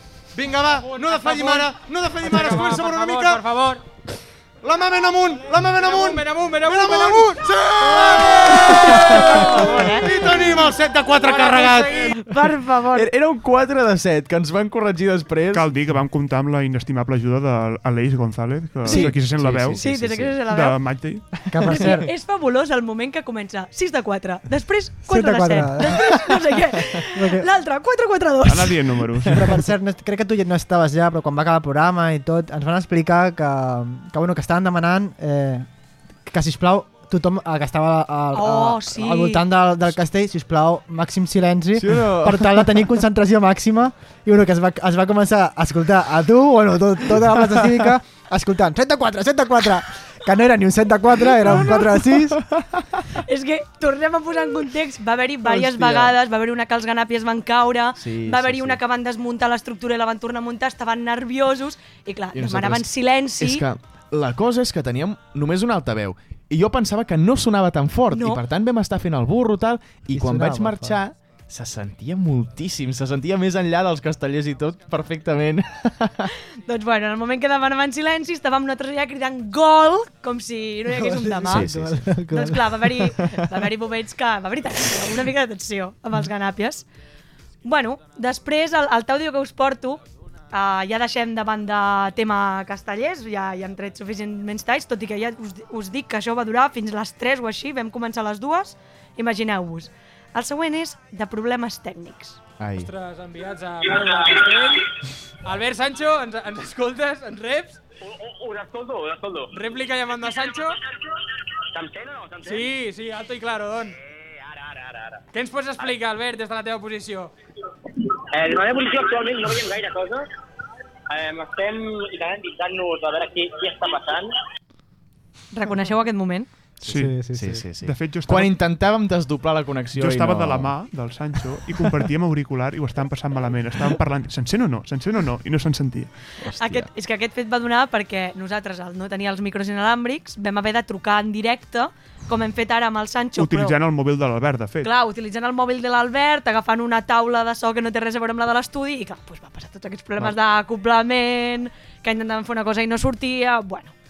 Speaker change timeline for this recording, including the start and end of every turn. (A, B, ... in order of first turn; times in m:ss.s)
0:00.4-0:03.4 A
0:00.6-0:03.8 B
0:04.6-0:12.1 A
0:05.6-0:12.2 B
0:08.7-0:10.1 C
0:12.1-0:13.1 C
0:12.9-0:15.7 D
0:15.5-0:19.8 E
0:18.8-0:20.4 D
0:18.8-0:19.1 C
0:19.8-0:20.8 C
0:20.4-0:21.3 E
0:21.5-0:22.1 F
0:21.6-0:28.9 C
0:25.1-0:26.4 F
0:27.0-0:27.5 F
0:28.4-0:29.6 E
0:29.2-0:35.7 F
0:36.2-0:52.4 F
0:38.3-0:39.4 C
0:41.8-0:42.7 D
0:51.3-0:51.9 C
0:51.5-0:51.8 D
0:52.3-0:52.8 D
0:53.2-1:03.6 C
0:55.4-0:56.1 D
0:58.0-0:58.8 D
1:02.3-1:16.3 D
1:08.1-1:08.4 C
1:10.1-1:11.0 F
1:16.6-1:21.7 C
1:20.8-1:23.1 F
1:21.5-1:22.1 D
1:22.3-1:26.8 C
1:27.6-1:30.0 C
1:30.5-1:42.4 C
1:42.6-1:42.9 D
1:42.8-1:44.9 B
1:45.4-1:47.8 B
1:48.0-1:49.5 G
1:49.5-1:50.8 B
1:51.7-1:52.7 G
1:52.4-1:54.0 B
1:54.1-1:55.2 G
1:55.3-1:57.3 B
1:58.3-2:00.2 G
2:01.1-2:04.3 G
2:05.5-2:06.5 C
2:06.8-2:10.8 D
2:06.8-2:08.6 E
2:06.9-2:07.6 F
2:09.9-2:16.1 E
2:16.4-2:16.9 D
2:16.6-2:23.8 C
2:23.4-2:24.9 E
2:24.8-2:33.9 C